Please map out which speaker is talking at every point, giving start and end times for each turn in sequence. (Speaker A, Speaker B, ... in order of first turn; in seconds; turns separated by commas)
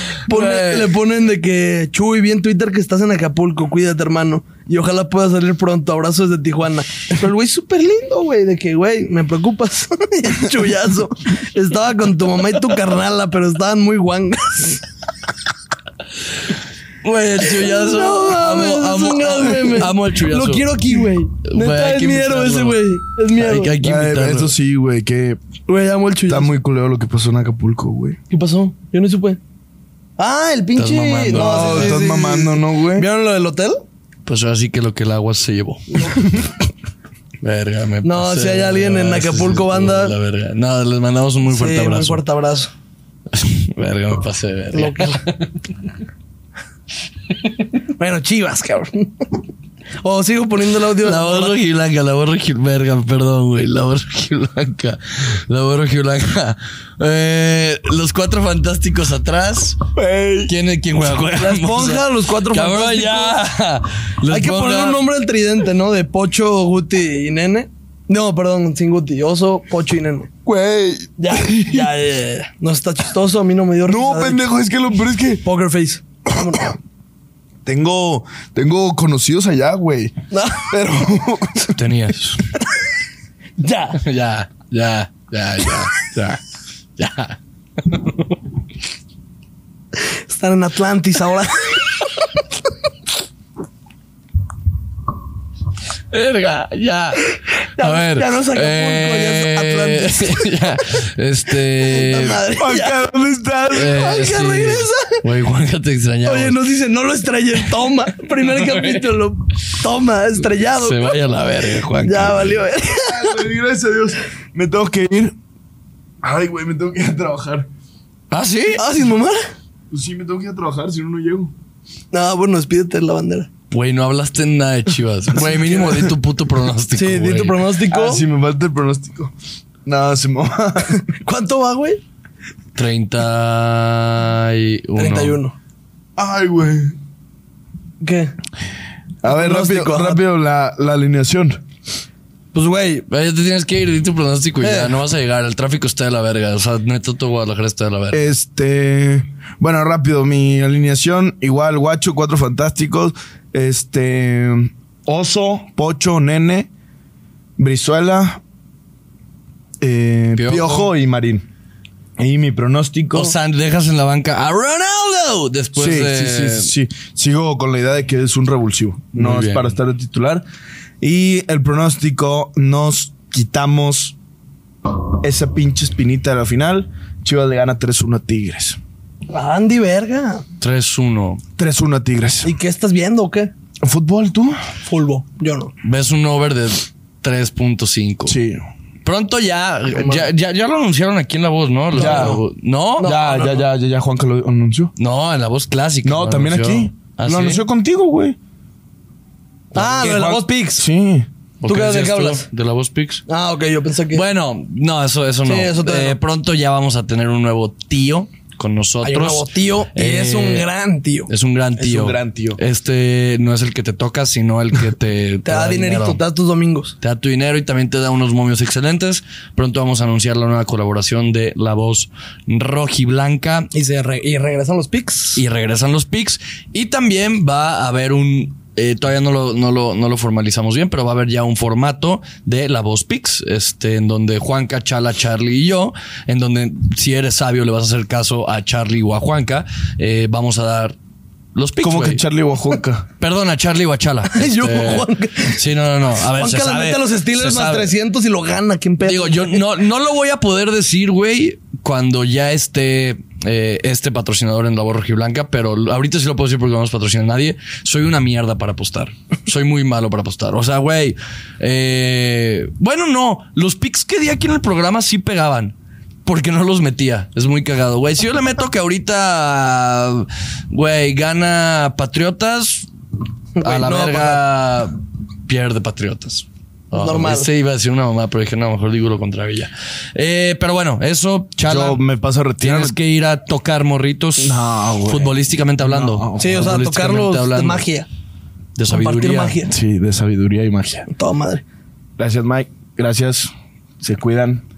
Speaker A: 0.3-14.8, Speaker B: 0.3-0.9, Speaker B: 17.0-20.7, Speaker A: 17.4-23.7, Speaker B: 21.4-22.8, Speaker B: 23.3-24.5, Speaker C: 23.8-25.4, Speaker A: 25.7-26.5, Speaker C: 26.3-28.2, Speaker A: 28.3-29.4, Speaker A: 30.2-33.8, Speaker B: 30.7-32.0, Speaker C: 31.3-33.1, Speaker B: 34.2-36.2, Speaker A: 35.9-36.4, Speaker B: 37.4-42.2, Speaker A: 38.0-40.1, Speaker A: 41.5-42.7, Speaker B: 43.3-45.5, Speaker A: 44.7-45.2, Speaker A: 47.9-49.4, Speaker A: 50.0-51.5, Speaker B: 51.0-59.8, Speaker C: 59.9-60.5, Speaker B: 60.5-65.0, Speaker A: 61.4-63.4, Speaker A: 64.3-70.3, Speaker C: 70.4-71.9, Speaker A: 71.2-74.4, Speaker C: 73.9-75.4, Speaker A: 75.4-76.8, Speaker C: 77.6-81.8, Speaker A: 80.3-80.9, Speaker B: 81.7-82.5, Speaker A: 83.6-84.0, Speaker B: 84.0-86.4, Speaker B: 87.0-88.3, Speaker A: 90.3-92.1, Speaker B: 96.1-102.4, Speaker A: 97.8-100.5, Speaker A: 101.8-103.0, Speaker C: 102.5-104.3, Speaker B: 103.7-106.6, Speaker A: 103.8-105.2, Speaker A: 106.2-111.1, Speaker B: 108.7-109.0, Speaker B: 110.7-112.6, Speaker A: 112.0-113.4, Speaker C: 113.0-115.3, Speaker C: 116.2-117.7, Speaker B: 118.3-118.8, Speaker A: 118.7-119.4, Speaker C: 119.9-121.5, Speaker A: 122.1-123.5, Speaker B: 123.7-127.6, Speaker A: 125.4-126.1, Speaker A: 126.9-128.2, Speaker C: 127.9-129.3, Speaker C: 129.8-131.0, Speaker A: 130.9-132.0, Speaker B: 132.7-135.4, Speaker A: 135.0-135.5, Speaker C: 136.2-136.9, Speaker A: 138.0-138.3, Speaker C: 139.2-141.6, Speaker A: 139.3-140.2, Speaker A: 142.5-143.1, Speaker B: 143.1-148.3, Speaker A: 144.6-145.0, Speaker C: 148.1-156.7, Speaker C: 157.6-158.4, Speaker C: 159.8-161.4, Speaker B: 160.3-160.9, Speaker C: 162.2-163.3, Speaker B: 163.1-166.7, Speaker C: 165.8-170.4, Speaker B: 169.1-169.8, Speaker C: 171.0-174.1, Speaker C: 175.2-178.8, Speaker A: 179.3-180.4, Speaker B: 180.6-181.4, Speaker C: 181.6-182.5, Speaker A: 182.4-183.5, Speaker C: 183.8-184.6, Speaker A: 184.8-185.7, Speaker B: 185.8-188.4, Speaker C: 188.2-188.6, Speaker B: 189.0-193.1, Speaker A: 189.9-190.3, Speaker A: 191.9-192.4, Speaker C: 191.9-192.4, Speaker A: 193.0-193.7, Speaker C: 193.0-194.9, Speaker B: 195.0-197.6, Speaker C: 196.0-198.4, Speaker B: 199.7-200.1, Speaker A: 199.7-200.8, Speaker C: 199.7-201.3, Speaker B: 201.6-203.2, Speaker A: 201.7-202.4, Speaker A: 203.3-204.2, Speaker B: 204.1-210.7, Speaker A: 205.4-206.2, Speaker A: 209.0-211.3, Speaker B: 211.3-216.2, Speaker C: 211.8-212.6, Speaker A: 215.4-216.9, Speaker B: 217.0-223.7, Speaker A: 223.7-225.4, Speaker B: 225.3-240.9, Speaker B: 241.5-242.2, Speaker C: 241.8-243.1, Speaker B: 243.2-247.9, Speaker A: 244.3-245.6, Speaker A: 246.3-249.6, Speaker B: 249.0-265.7, Speaker B: 266.2-272.9, Speaker A: 273.6-274.4, Speaker B: 273.6-282.0, Speaker A: 276.9-277.5, Speaker C: 281.6-282.9, Speaker B: 282.6-287.9, Speaker C: 284.4-286.8, Speaker A: 286.4-288.1, Speaker B: 288.8-289.6, Speaker A: 288.9-289.7, Speaker C: 289.7-291.1, Speaker A: 291.1-291.6, Speaker C: 292.2-294.6